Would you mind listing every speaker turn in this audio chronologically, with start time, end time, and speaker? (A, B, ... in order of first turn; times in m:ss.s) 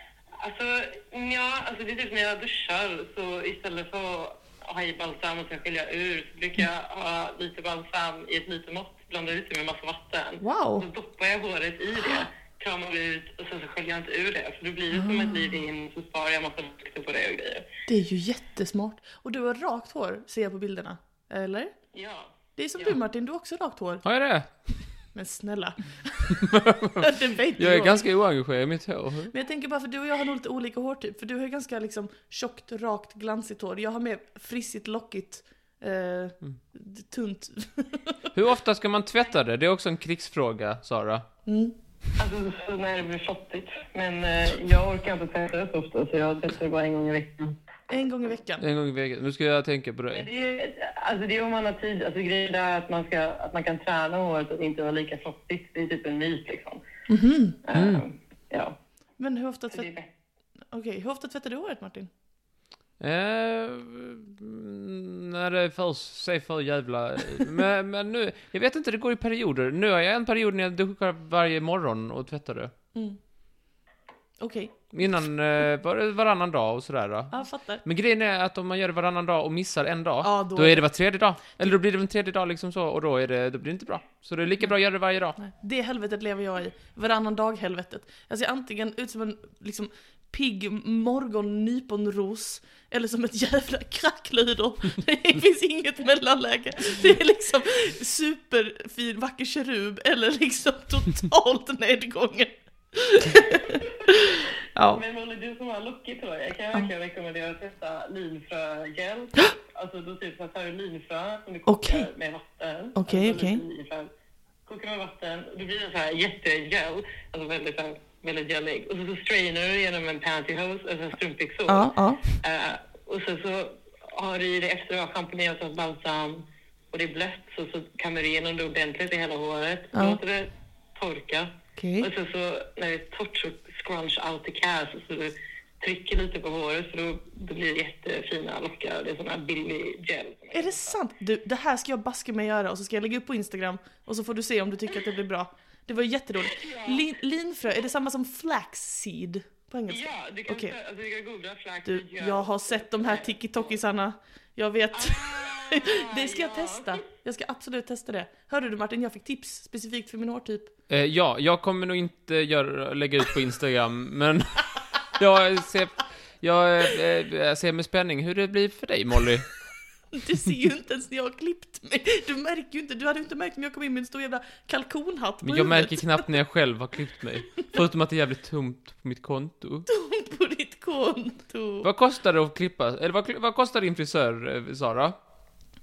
0:00.4-0:17.7 A
0:10.4-0:10.8 B
0:15.0-0:15.4 B
0:17.9-0:21.7 B
0:21.9-0:22.3 A
0:22.6-0:24.0 B
0:24.0-0:24.5 C
0:25.1-0:28.0 B
0:26.3-0:29.3 C
0:29.3-0:38.3 B
0:38.3-0:41.2 C
0:41.4-0:41.7 B
0:42.2-0:47.6 A
0:47.9-0:48.6 B
0:48.6-0:50.3 C
0:50.1-0:56.8 A
0:57.1-0:57.6 B
0:57.6-0:58.8 A
0:57.7-0:58.0 C
0:59.2-0:59.9 B
0:59.7-1:00.1 A
1:00.7-1:02.1 B
1:03.0-1:12.7 C
1:12.9-1:13.2 B
1:14.4-1:14.8 B
1:14.9-1:25.4 C
1:17.3-1:17.8 B
1:20.2-1:20.9 B
1:25.4-1:45.0 B
1:44.8-1:54.1 A
1:51.7-1:52.1 B
1:53.0-1:53.6 B
1:54.7-2:21.0 A
2:01.7-2:02.4 B
2:09.9-2:10.2 B
2:11.8-2:12.1 B
2:20.5-2:30.7 B
2:26.5-2:27.0 A
2:29.9-2:33.7 A
2:31.8-2:40.7 B
2:34.9-2:37.0 A
2:40.9-2:49.5 C
2:50.1-2:56.3 B
2:55.4-2:59.9 C
2:59.9-3:01.9 B
3:01.8-3:05.1 C